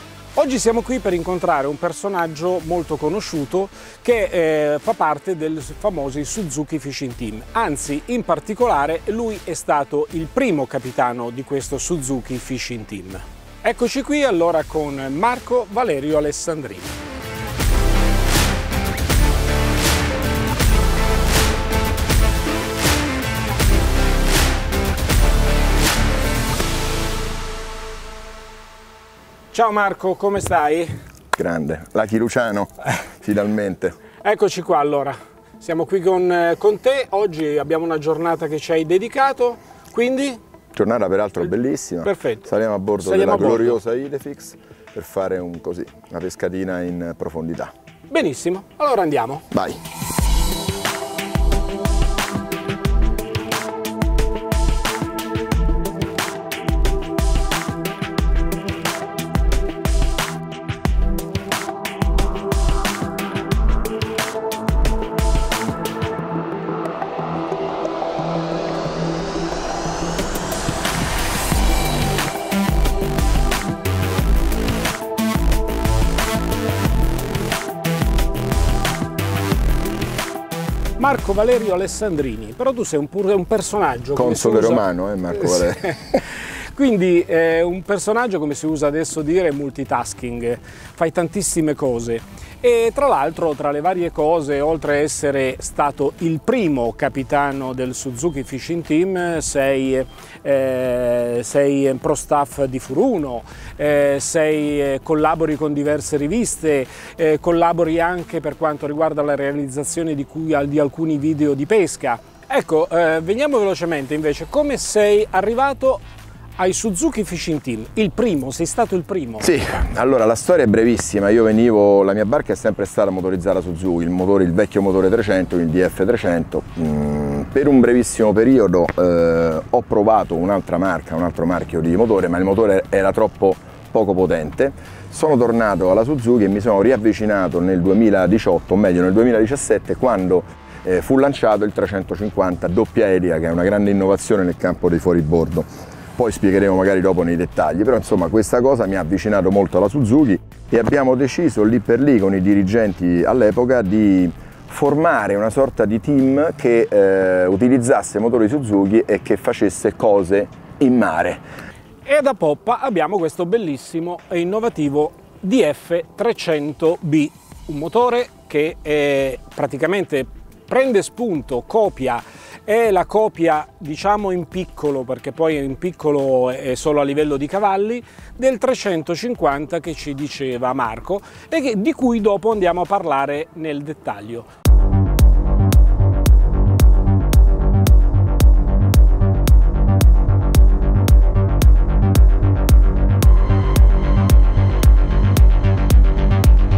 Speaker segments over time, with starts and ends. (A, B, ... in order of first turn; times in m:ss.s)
0:00.3-0:17.0 A
0:29.5-0:30.9 A
0:31.3-0:34.0 B
0:34.2-0:40.4 A
0:40.7-0:47.7 B
0:42.0-0:42.5 A
0:43.0-0:43.8 A
0:48.1-0:49.4 A
0:49.5-0:49.8 B
1:21.0-1:56.0 A
1:24.2-1:26.2 B
1:56.6-1:59.5 A
1:59.4-2:41.4 B
2:42.0-3:04.5 A